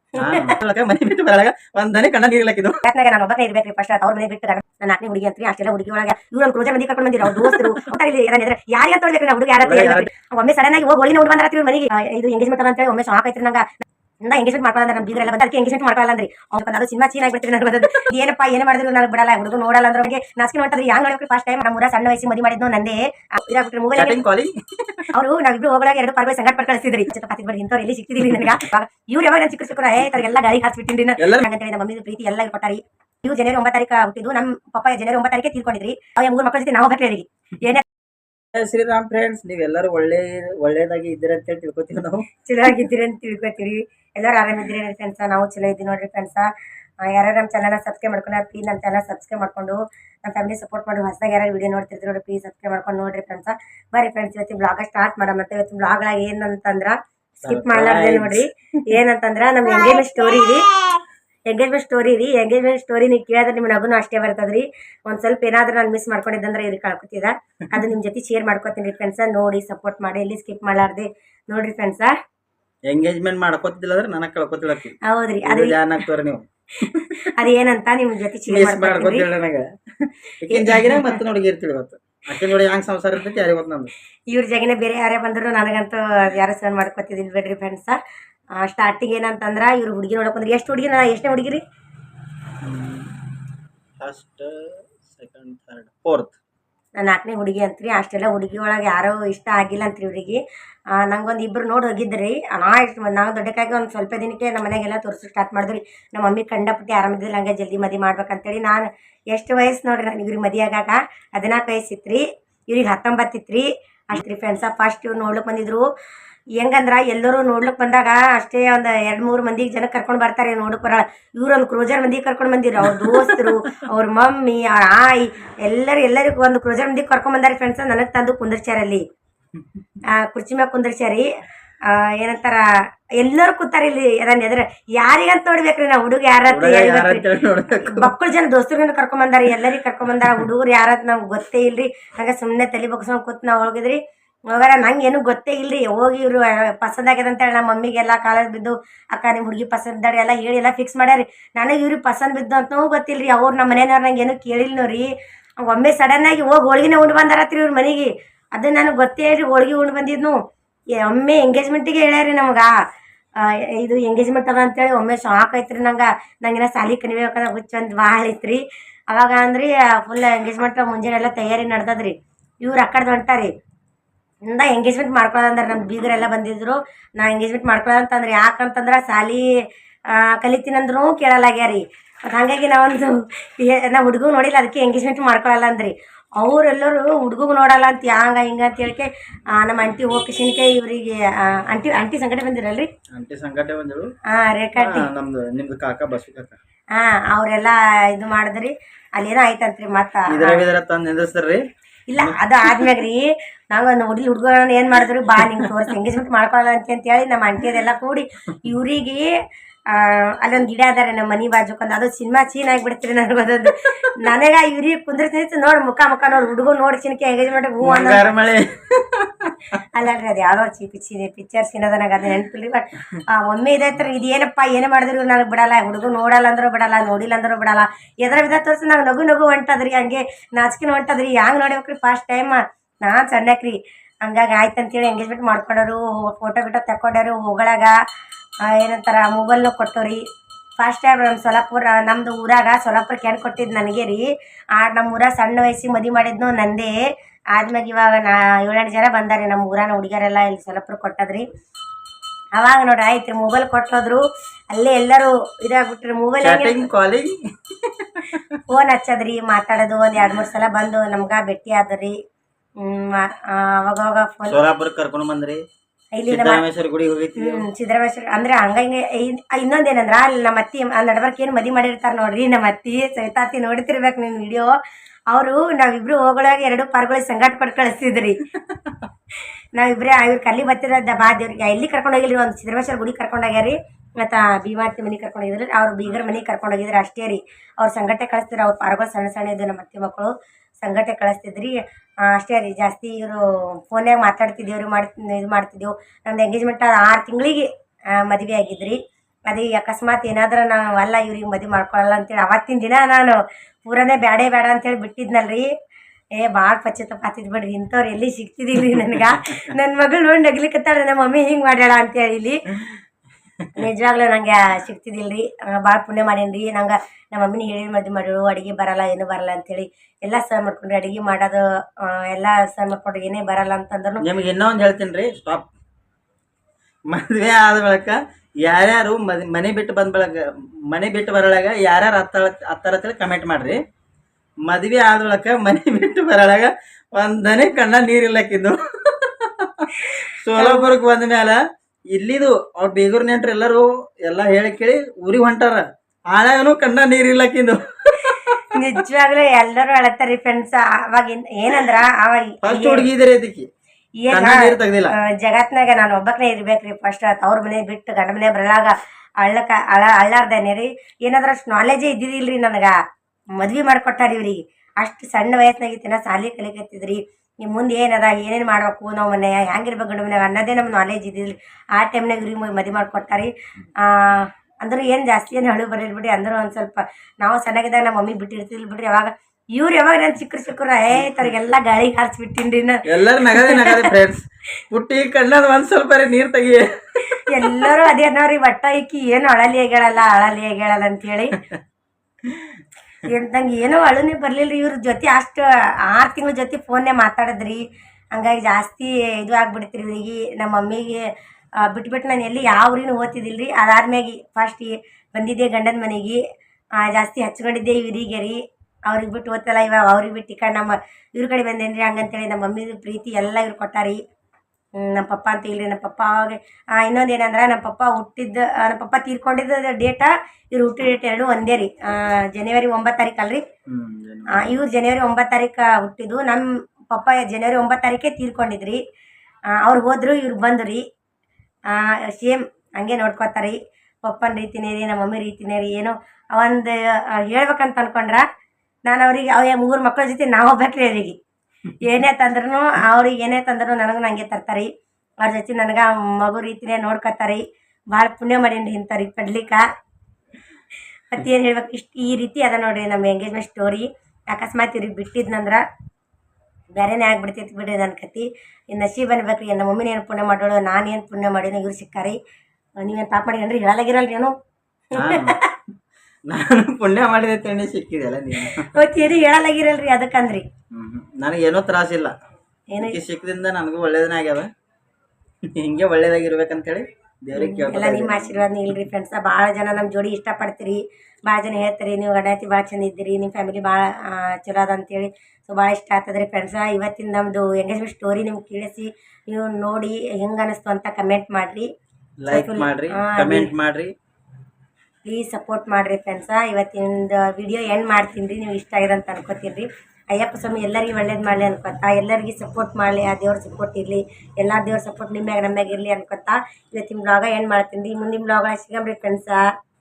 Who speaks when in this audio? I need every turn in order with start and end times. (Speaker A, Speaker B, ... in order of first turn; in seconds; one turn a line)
Speaker A: 0.2-2.8
Speaker B: 0.2-0.5
Speaker B: 2.8-24.2
Speaker A: 7.3-7.8
Speaker A: 9.6-10.1
Speaker A: 24.0-25.1
Speaker B: 25.1-37.8
Speaker A: 28.2-28.6
Speaker A: 31.2-31.5
Speaker A: 38.5-42.3
Speaker B: 42.5-46.5
Speaker B: 47.0-60.7
Speaker A: 57.4-58.9
Speaker B: 61.5-72.1
Speaker A: 72.9-77.3
Speaker B: 75.0-75.8
Speaker B: 77.2-79.3
Speaker A: 78.5-83.9
Speaker B: 80.5-81.2
Speaker B: 84.3-88.0
Speaker B: 88.6-91.6
Speaker A: 92.6-93.1
Speaker A: 94.0-96.3
Speaker B: 97.0-100.4
Speaker B: 100.9-115.9
Speaker B: 116.6-129.0
Speaker A: 122.8-123.7
Speaker B: 130.1-131.3
Speaker B: 131.9-132.6
Speaker B: 133.2-137.2
Speaker A: 136.5-138.1
Speaker B: 137.8-144.0
Speaker B: 144.5-160.4
Speaker B: 161.0-162.7
Speaker B: 163.4-173.5
Speaker B: 174.5-179.5
Speaker B: 180.1-192.9
Speaker A: 193.1-194.1
Speaker B: 194.3-195.1
Speaker A: 194.8-196.6
Speaker B: 196.9-200.6
Speaker A: 200.3-201.6
Speaker B: 202.1-209.3
Speaker A: 202.2-203.0
Speaker A: 205.3-205.8
Speaker B: 209.9-218.2
Speaker A: 217.8-219.8
Speaker B: 219.9-237.9
Speaker B: 238.6-240.2
Speaker B: 240.8-246.9
Speaker B: 247.5-251.4
Speaker B: 252.6-256.8
Speaker A: 256.4-258.6
Speaker B: 258.7-262.1
Speaker B: 262.8-264.6
Speaker A: 264.4-265.6
Speaker B: 266.2-266.6
Speaker A: 266.3-267.6
Speaker B: 267.4-274.7
Speaker B: 275.3-278.4
Speaker A: 278.6-279.0
Speaker B: 279.8-305.7
Speaker A: 286.1-286.4
Speaker B: 306.4-312.6
Speaker B: 313.8-324.2
Speaker A: 324.2-325.7
Speaker A: 327.1-333.8
Speaker A: 334.6-341.6
Speaker B: 340.0-340.9
Speaker A: 342.1-348.8
Speaker B: 348.2-353.1
Speaker A: 352.6-353.7
Speaker B: 354.2-362.9
Speaker A: 354.3-355.1
Speaker B: 363.6-384.1
Speaker A: 383.1-388.0
Speaker B: 387.3-391.6
Speaker A: 392.4-392.8
Speaker B: 393.2-397.8
Speaker B: 398.3-401.3
Speaker B: 401.8-406.4
Speaker B: 407.0-414.2
Speaker B: 415.0-423.6
Speaker A: 423.9-424.8
Speaker B: 424.5-429.0
Speaker B: 429.7-431.0
Speaker B: 431.9-438.4
Speaker B: 439.1-441.4
Speaker B: 442.0-444.9
Speaker B: 445.4-447.6
Speaker B: 448.1-449.8
Speaker B: 451.3-455.8
Speaker B: 456.9-462.4
Speaker B: 463.0-464.5
Speaker A: 465.1-465.6
Speaker B: 465.1-465.7
Speaker A: 466.5-469.0
Speaker B: 468.6-470.6
Speaker A: 470.9-472.3
Speaker B: 472.9-473.2
Speaker A: 473.0-474.7
Speaker A: 475.7-478.6
Speaker B: 477.6-491.9
Speaker A: 492.4-494.1
Speaker B: 492.5-493.7
Speaker B: 495.2-509.7